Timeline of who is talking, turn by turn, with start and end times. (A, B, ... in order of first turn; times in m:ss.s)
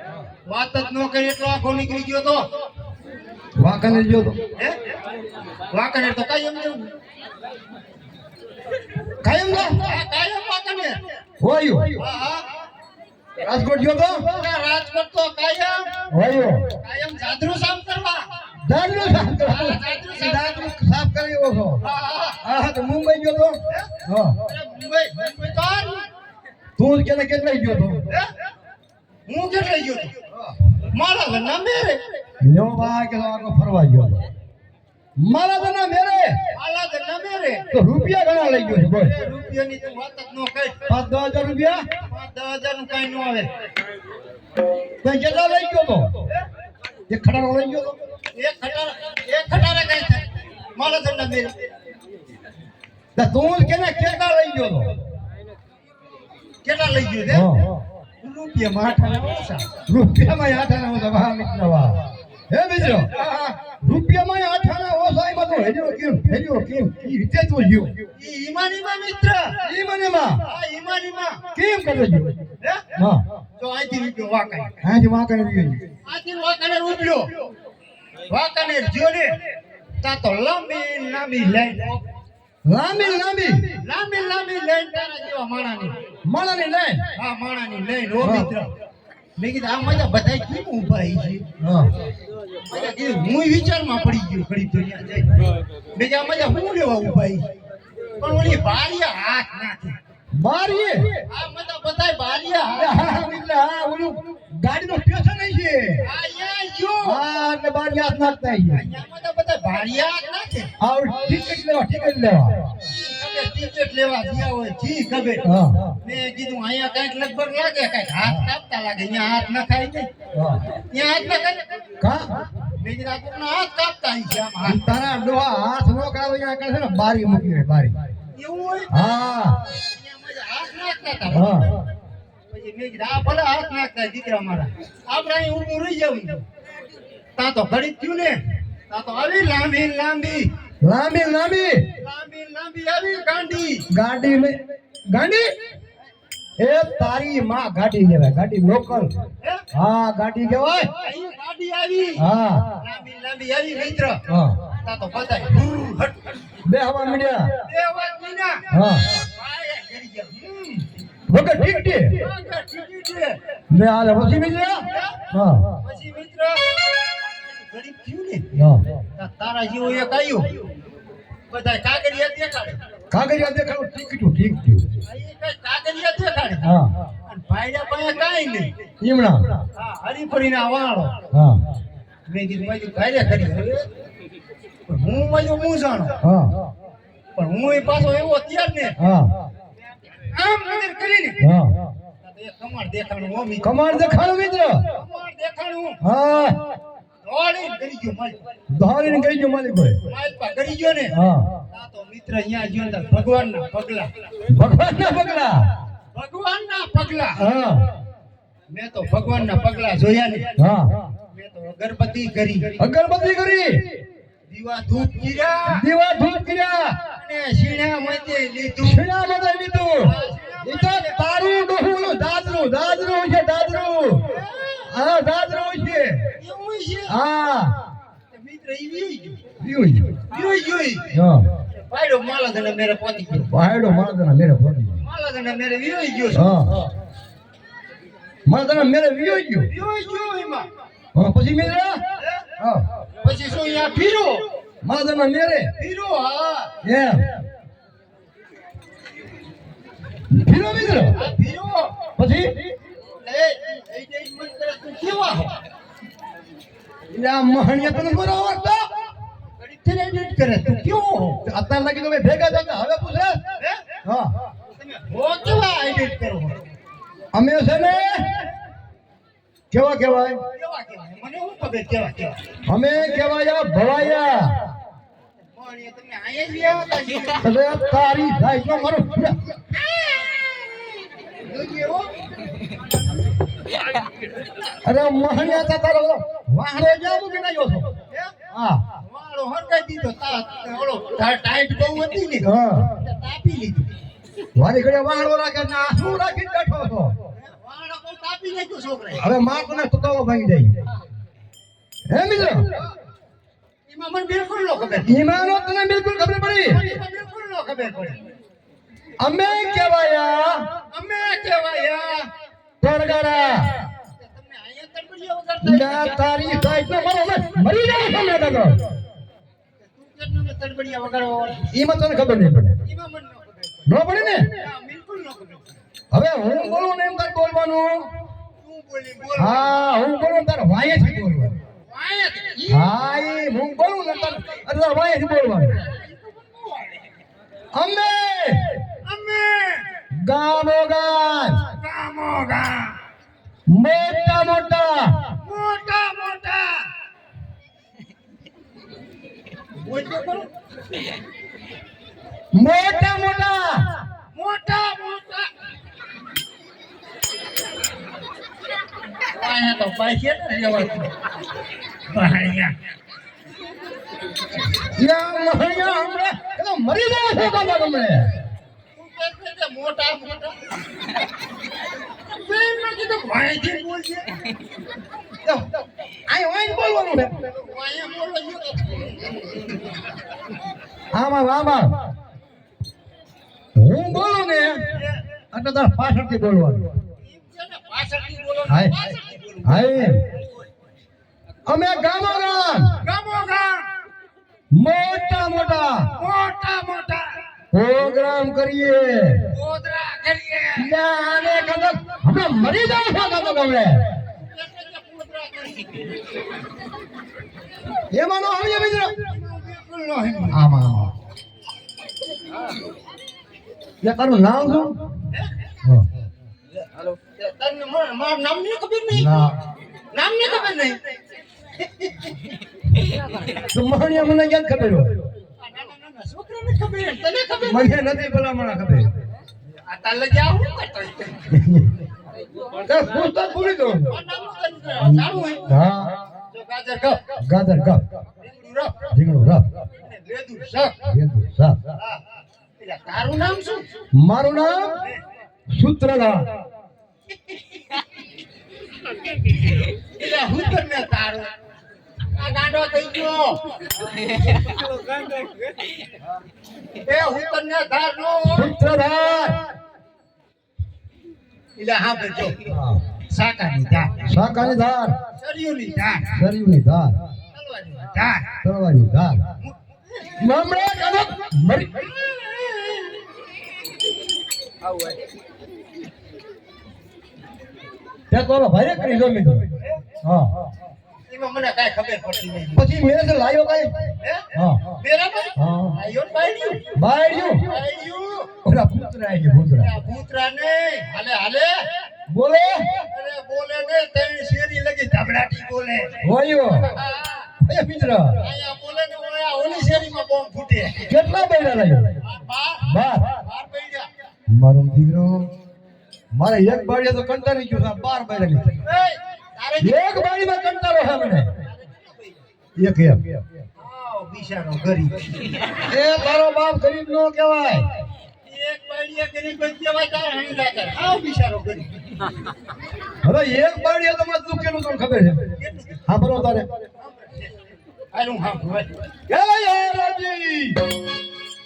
0:00.4-0:02.6 A
0:03.6-0:04.4 B
0:04.6-0:05.0 A
0:05.7-0:06.9 A
0:09.2-0:09.8 B
0:09.5-0:11.0 A
0:11.4-0:12.0 B
0:12.0-0:12.5 A
0:13.4-0:14.3 B
0:14.2-0:16.0 A
0:16.1-0:16.7 B
0:16.6-0:18.2 A
0:18.6-0:21.8 B
0:19.4-0:20.6 A
0:21.8-0:22.4 A
0:22.4-0:24.4 B
0:24.4-0:26.1 A
0:26.8-0:28.0 B
0:29.3-0:30.1 A
0:30.9-0:32.0 A
0:32.4-0:34.3 B
0:35.2-0:36.4 B
0:36.5-0:37.6 A
0:37.7-0:39.2 B
0:39.1-0:40.8 A
0:40.9-0:41.8 B
0:42.1-0:43.5 A
0:45.0-0:46.1 B
0:47.1-0:48.0 B
0:48.4-0:51.5 A
0:53.2-0:55.0 B
0:56.6-0:57.5 A
0:57.3-0:57.8 B
0:58.2-0:59.6 A
0:59.9-1:03.1 B
1:03.0-1:03.6 A
1:03.8-1:08.0 B
1:08.2-1:09.6 A
1:09.6-1:10.4 B
1:10.4-1:11.4 A
1:11.5-1:12.3 B
1:12.6-1:12.9 A
1:13.0-1:13.2 B
1:13.6-1:14.7 A
1:14.8-1:15.8 B
1:16.0-1:17.4 A
1:18.3-1:19.4 A
1:20.0-1:22.0 A
1:22.6-1:23.8 B
1:23.8-1:26.0 A
1:26.2-1:27.0 B
1:27.1-1:28.7 A
1:28.2-1:28.5 B
1:29.4-1:31.4 A
1:31.6-1:32.0 B
1:32.7-1:37.5 A
1:38.2-1:40.0 A
1:40.3-1:41.2 B
1:41.3-1:43.2 A
1:42.8-1:46.0 B
1:46.0-1:47.2 A
1:47.0-1:48.8 B
1:48.7-1:50.7 A
1:50.8-1:52.6 B
1:52.9-1:55.5 A
1:55.4-1:55.9 B
1:56.0-2:00.1 A
2:00.3-2:00.6 B
2:00.9-2:01.8 A
2:02.0-2:02.4 B
2:02.8-2:05.0 A
2:04.6-2:08.0 B
2:08.3-2:09.0 A
2:08.9-2:09.6 B
2:09.7-2:11.8 A
2:11.3-2:11.7 B
2:12.5-2:16.4 A
2:17.3-2:20.5 A
2:20.8-2:21.8 B
2:22.0-2:23.8 A
2:23.9-2:25.5 B
2:26.6-2:29.1 B
2:29.7-2:30.9 B
2:30.9-2:32.2 A
2:32.2-2:32.7 B
2:32.8-2:34.2 A
2:34.3-2:34.6 B
2:34.8-2:36.4 A
2:36.6-2:37.5 B
2:37.6-2:40.9 A
2:38.7-2:39.1 B
2:41.3-2:42.2 B
2:42.2-2:43.4 A
2:43.7-2:45.7 B
2:44.9-2:45.2 A
2:45.8-2:48.4 A
2:48.5-2:48.9 B
2:49.2-2:50.6 A
2:51.5-2:52.8 A
2:53.1-2:54.9 B
2:55.0-2:56.7 A
2:56.6-2:56.9 B
2:57.2-2:58.7 A
2:59.0-2:59.5 B
2:59.7-3:01.2 A
3:01.3-3:01.6 B
3:02.3-3:03.8 A
3:04.9-3:06.2 A
3:06.2-3:06.6 B
3:07.4-3:08.9 A
3:09.0-3:09.3 B
3:10.3-3:11.4 A
3:11.4-3:11.8 B
3:12.2-3:13.7 A
3:13.6-3:14.8 B
3:14.9-3:16.0 A
3:16.0-3:16.6 B
3:17.2-3:18.4 A
3:18.7-3:20.0 B
3:20.0-3:21.1 A
3:21.1-3:21.5 B
3:21.7-3:24.1 A
3:24.5-3:25.7 B
3:26.1-3:27.4 A
3:27.4-3:27.9 B
3:28.7-3:30.5 A
3:30.6-3:31.0 B
3:31.3-3:32.8 A
3:32.8-3:33.9 B
3:34.5-3:35.8 A
3:35.7-3:37.0 B
3:37.1-3:39.0 A
3:38.8-3:44.3 B
3:40.0-3:41.2 A
3:44.2-3:44.9 A
3:44.9-3:46.3 B
3:46.4-3:47.2 A
3:47.1-3:47.8 B
3:48.3-3:49.4 A
3:49.6-3:50.2 B
3:50.3-3:51.1 A
3:51.1-3:51.5 B
3:51.7-3:53.5 A
3:53.4-3:55.0 B
3:55.0-3:56.5 A
3:56.3-3:56.9 B
3:58.4-3:59.7 B
3:59.7-4:00.7 A
4:01.1-4:02.0 B
4:02.2-4:02.4 A
4:02.6-4:02.8 B
4:03.2-4:04.4 A
4:04.8-4:05.7 B
4:05.8-4:06.7 A
4:06.8-4:07.3 B
4:10.3-4:11.2 B
4:11.1-4:11.9 A
4:12.2-4:12.5 B
4:13.2-4:15.6 A
4:17.1-4:18.9 B
4:19.6-4:21.4 A
4:21.4-4:23.4 B
4:23.6-4:23.8 A
4:24.0-4:24.4 B
4:24.6-4:26.6 A
4:27.3-4:28.5 B
4:29.7-4:30.4 B
4:30.5-4:32.4 A
4:32.7-4:34.6 B
4:35.6-4:37.4 A
4:37.4-4:39.5 B
4:39.7-4:42.1 A
4:44.8-4:47.9 B
4:48.5-4:48.8 B
4:49.0-4:53.9 A
4:52.4-4:52.9 B
4:54.6-4:57.1 B
4:57.3-4:59.3 A
4:59.2-5:00.8 B
5:02.1-5:02.7 B
5:03.9-5:05.1 A
5:05.0-5:06.9 B
5:06.6-5:08.2 A
5:09.2-5:10.6 B
5:10.9-5:12.3 A
5:12.8-5:13.7 B
5:14.1-5:16.2 A
5:15.6-5:18.8 B
5:19.8-5:21.6 A
5:21.7-5:22.8 B
5:22.8-5:23.8 A
5:23.8-5:24.5 B
5:24.5-5:25.7 A
5:26.1-5:28.1 B
5:28.6-5:29.7 A
5:29.4-5:31.6 B
5:31.8-5:32.9 A
5:32.7-5:35.8 B
5:35.8-5:37.1 A
5:37.7-5:38.8 B
5:39.0-5:39.9 A
5:40.1-5:41.6 B
5:41.7-5:43.0 A
5:43.7-5:45.3 B
5:45.4-5:46.9 A
5:49.8-5:50.5 A
5:52.5-5:53.9 B
5:54.3-5:55.5 A
5:59.3-6:01.1 A
6:02.1-6:02.8 A
6:04.8-6:08.3 B
6:09.0-6:10.6 A
6:12.2-6:14.4 A
6:16.3-6:17.4 B
6:17.4-6:19.8 A
6:21.1-6:21.9 B
6:23.8-6:24.8 B
6:24.9-6:25.2 A
6:25.5-6:26.9 B
6:27.2-6:30.6 A
6:28.7-6:29.0 B
6:29.6-6:30.2 B
6:31.7-6:33.0 B
6:33.0-6:33.9 A
6:34.7-6:36.1 B
6:36.1-6:37.4 A
6:37.7-6:39.5 B
6:39.5-6:40.9 A
6:40.8-6:44.1 B
6:44.3-6:46.1 A
6:48.1-6:49.2 B
6:49.2-6:50.6 A
6:50.5-6:51.1 B
6:54.0-6:55.0 B
6:55.8-6:56.1 B
6:57.3-6:59.3 A
6:59.1-6:59.6 B
7:00.1-7:01.1 A
7:01.8-7:02.3 A
7:03.7-7:05.2 B
7:05.6-7:08.1 A
7:07.6-7:09.1 B
7:09.8-7:11.5 A
7:11.5-7:12.0 B
7:12.8-7:14.2 B
7:14.1-7:15.7 A
7:15.0-7:16.1 B
7:16.5-7:17.2 A
7:17.4-7:18.0 B
7:18.4-7:19.1 A
7:19.1-7:19.7 B
7:19.9-7:21.0 A
7:21.0-7:21.8 B
7:21.9-7:22.2 A
7:22.8-7:23.9 A
7:24.1-7:25.0 B
7:25.7-7:26.5 B
7:29.9-7:31.5 A
7:32.3-7:33.8 A
7:37.0-7:38.7 A
7:38.5-7:39.6 B
7:41.8-7:42.7 A
7:42.7-7:43.0 B
7:43.3-7:44.2 A
7:44.2-7:45.2 B
7:45.4-7:46.4 A
7:46.3-7:47.2 B
7:47.5-7:48.5 A
7:48.6-7:49.4 B
7:49.6-7:50.3 A
7:50.4-7:52.1 B
7:52.0-7:53.3 A
7:58.3-7:59.7 B
8:00.2-8:00.5 B
8:01.3-8:02.9 A
8:02.8-8:04.8 B
8:04.2-8:04.4 A
8:05.0-8:08.5 A
8:05.6-8:06.0 B
8:06.9-8:07.8 B
8:08.6-8:09.9 B
8:09.8-8:11.9 A
8:12.3-8:13.0 B
8:13.1-8:16.2 A
8:16.2-8:16.9 B
8:16.8-8:17.5 A
8:17.6-8:18.4 B
8:18.4-8:21.1 A
8:21.1-8:22.2 B
8:22.2-8:24.1 A
8:22.8-8:23.3 B
8:24.5-8:25.5 B
8:26.3-8:28.8 B
8:28.8-8:30.1 A
8:29.8-8:31.5 B
8:31.6-8:32.4 A
8:32.8-8:33.4 B
8:33.8-8:35.6 A
8:35.9-8:37.9 B
8:38.4-8:42.0 A
8:43.2-8:45.5 B
8:45.6-8:46.0 A
8:46.1-8:46.7 B
8:47.0-8:47.5 A
8:48.1-8:48.9 A
8:49.3-8:50.9 B